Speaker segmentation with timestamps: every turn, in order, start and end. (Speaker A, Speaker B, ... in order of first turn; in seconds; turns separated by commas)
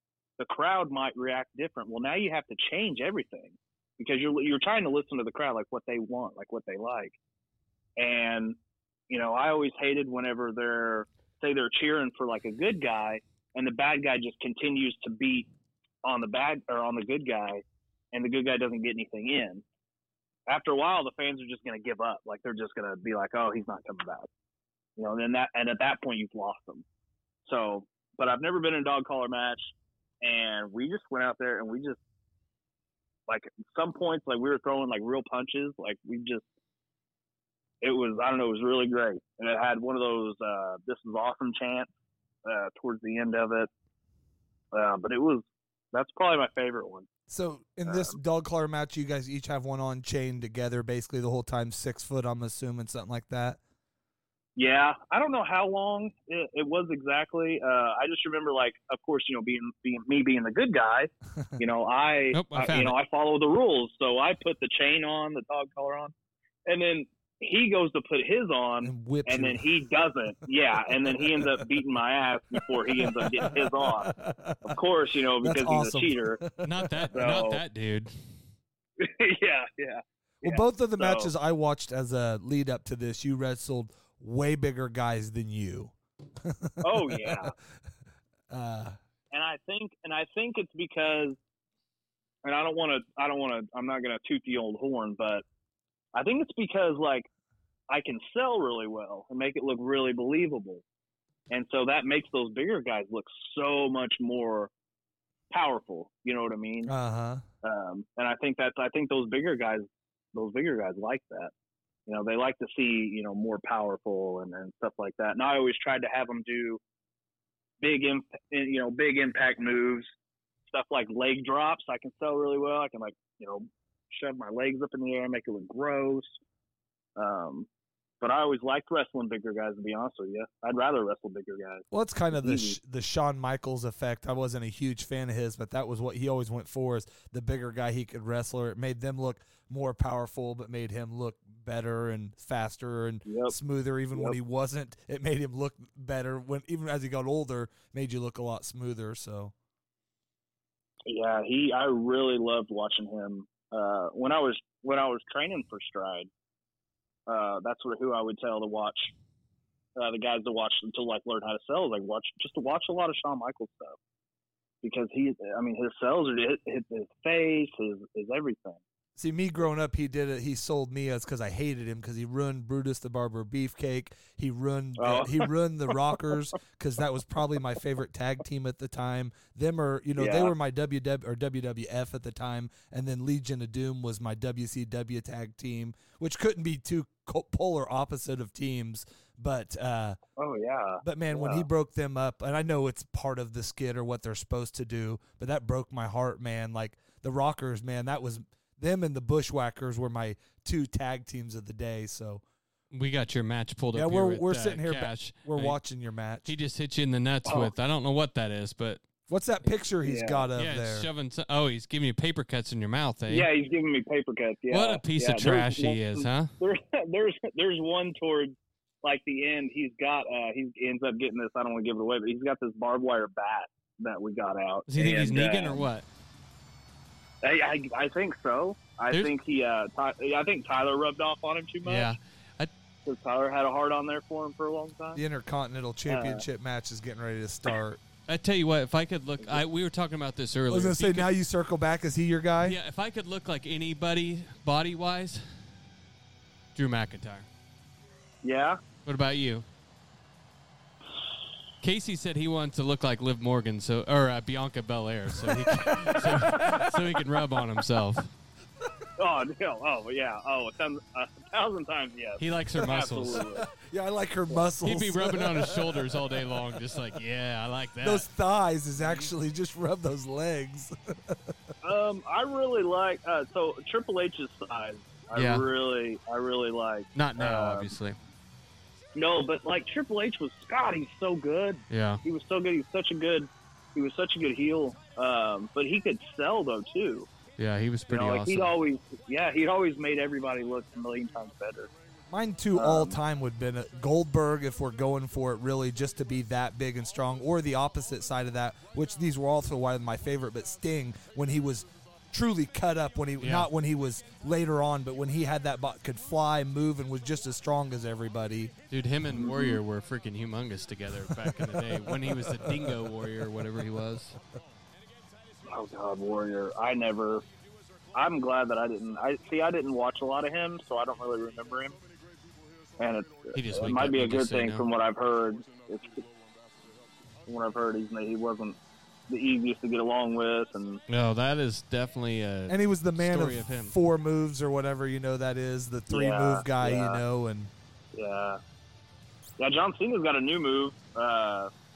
Speaker A: 0.4-7.2, Speaker A: 8.0-8.6, Speaker A: 9.1-15.5, Speaker A: 16.0-19.6, Speaker A: 20.5-24.3, Speaker A: 25.0-26.9, Speaker A: 27.4-29.7, Speaker A: 30.2-32.0, Speaker A: 33.3-36.4, Speaker A: 37.8-41.9, Speaker A: 42.5-43.7, Speaker A: 44.7-47.1, Speaker B: 47.3-53.6, Speaker A: 47.9-48.2, Speaker A: 54.6-66.1, Speaker C: 62.3-63.0, Speaker A: 66.7-74.1, Speaker B: 68.8-69.6, Speaker B: 70.9-71.6, Speaker B: 73.0-74.8, Speaker A: 74.6-76.4, Speaker B: 75.4-77.1, Speaker C: 76.6-78.1, Speaker A: 77.1-77.6, Speaker A: 79.0-81.3, Speaker B: 80.4-87.5, Speaker A: 86.8-87.5, Speaker B: 88.5-89.0, Speaker A: 89.3-91.4, Speaker A: 92.4-95.4, Speaker A: 96.2-97.3, Speaker A: 97.9-100.8, Speaker A: 101.5-104.7, Speaker A: 105.5-106.9, Speaker B: 106.9-107.4, Speaker A: 107.6-111.5, Speaker A: 112.1-116.8, Speaker A: 117.8-120.1, Speaker A: 120.7-126.4, Speaker A: 127.2-127.7, Speaker A: 128.2-132.8, Speaker B: 131.9-149.5, Speaker A: 143.3-143.6, Speaker A: 151.1-156.3, Speaker A: 157.3-159.1, Speaker A: 160.0-164.0, Speaker A: 164.8-168.8, Speaker B: 169.2-190.2, Speaker A: 175.0-176.0, Speaker A: 180.2-180.5, Speaker A: 190.4-191.7, Speaker B: 191.0-202.4, Speaker C: 202.9-205.8, Speaker B: 203.9-206.5, Speaker C: 206.4-209.0, Speaker A: 207.4-207.7, Speaker B: 209.3-211.1, Speaker A: 210.0-210.5, Speaker C: 210.6-213.5, Speaker A: 213.3-225.9, Speaker C: 214.7-216.5, Speaker C: 224.9-226.1, Speaker A: 227.4-232.2, Speaker C: 231.8-232.7, Speaker A: 233.1-235.2, Speaker B: 235.2-238.0, Speaker A: 236.1-236.4, Speaker C: 238.3-241.3, Speaker B: 240.7-242.8, Speaker C: 242.6-245.4, Speaker C: 246.8-247.5, Speaker A: 248.4-248.8, Speaker C: 249.1-249.7, Speaker C: 251.8-258.3, Speaker B: 255.4-257.2, Speaker A: 259.2-263.7, Speaker C: 262.4-263.4, Speaker B: 263.4-266.8, Speaker C: 264.8-268.2, Speaker B: 268.0-271.5, Speaker A: 271.8-277.9, Speaker C: 275.4-275.7, Speaker C: 277.1-278.2, Speaker A: 279.1-287.3, Speaker C: 281.9-282.2, Speaker C: 287.6-288.7, Speaker A: 288.1-291.9, Speaker B: 292.3-308.7, Speaker A: 292.8-293.2, Speaker C: 303.4-303.7, Speaker C: 308.9-314.4, Speaker A: 309.3-309.8, Speaker B: 311.3-313.0, Speaker A: 315.7-317.4, Speaker A: 318.1-322.0, Speaker A: 323.0-326.2, Speaker C: 323.6-324.9, Speaker A: 327.5-328.8, Speaker A: 329.3-331.0, Speaker C: 331.1-333.9, Speaker B: 332.7-337.7, Speaker A: 336.1-337.2, Speaker A: 338.1-338.6, Speaker A: 339.6-341.7